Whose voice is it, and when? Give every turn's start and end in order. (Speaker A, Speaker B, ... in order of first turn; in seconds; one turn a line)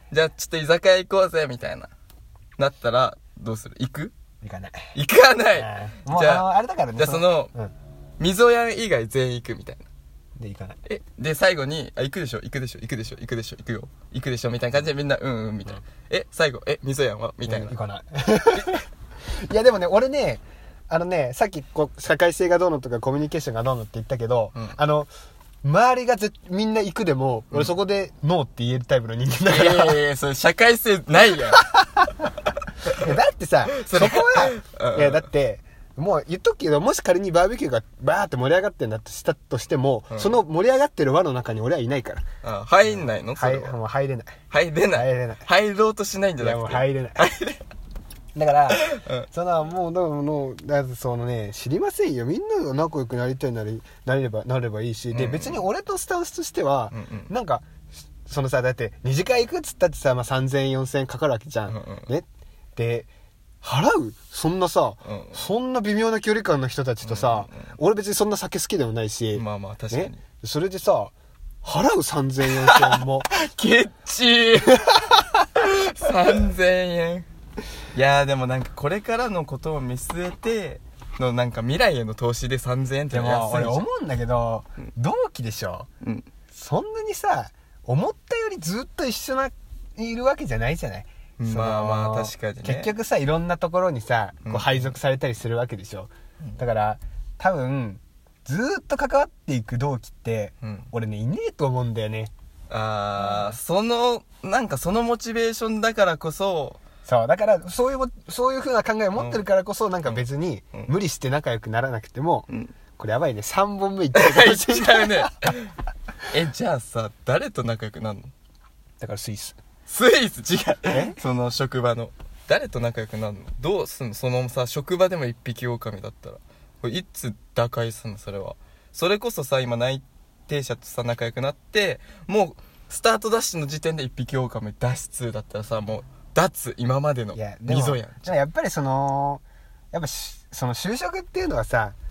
Speaker A: 0.1-1.9
Speaker A: 2.6-4.1
Speaker B: 4.4-4.9
Speaker A: 4.9-6.5
Speaker B: 5.5-7.7
Speaker A: 7.0-7.5
Speaker A: 8.2-9.9
Speaker B: 10.4-10.8
Speaker A: 10.8-17.7
Speaker B: 17.4-25.1
Speaker A: 18.5-18.8
Speaker B: 25.6-30.0
Speaker A: 29.4-31.7
Speaker B: 31.5-32.1
Speaker B: 32.9-42.2
Speaker A: 33.8-35.2
Speaker A: 40.1-40.4
Speaker A: 42.4-43.7
Speaker B: 42.8-44.4
Speaker A: 44.5-47.6
Speaker B: 44.9-45.5
Speaker B: 46.4-47.2
Speaker B: 48.3-57.7
Speaker A: 48.8-49.3
Speaker A: 55.1-55.6
Speaker A: 56.9-57.3
Speaker B: 58.2-63.1
Speaker A: 61.7-62.1
Speaker B: 63.6-73.2
Speaker A: 65.0-65.4
Speaker A: 67.0-67.7
Speaker A: 69.3-70.2
Speaker A: 72.6-77.3
Speaker B: 74.6-75.2
Speaker A: 77.9-83.8
Speaker B: 83.1-85.9
Speaker A: 86.0-86.3
Speaker B: 86.5-102.3
Speaker A: 91.4-92.9
Speaker A: 94.4-95.0
Speaker A: 100.6-100.9
Speaker A: 102.7-106.8
Speaker B: 103.2-103.6
Speaker B: 107.0-112.5
Speaker A: 109.2-109.4
Speaker A: 110.0-110.9
Speaker B: 113.0-115.3
Speaker A: 114.1-115.7
Speaker A: 116.3-118.3
Speaker B: 119.0-119.6
Speaker A: 119.9-138.3
Speaker B: 120.9-121.2
Speaker B: 137.3-142.0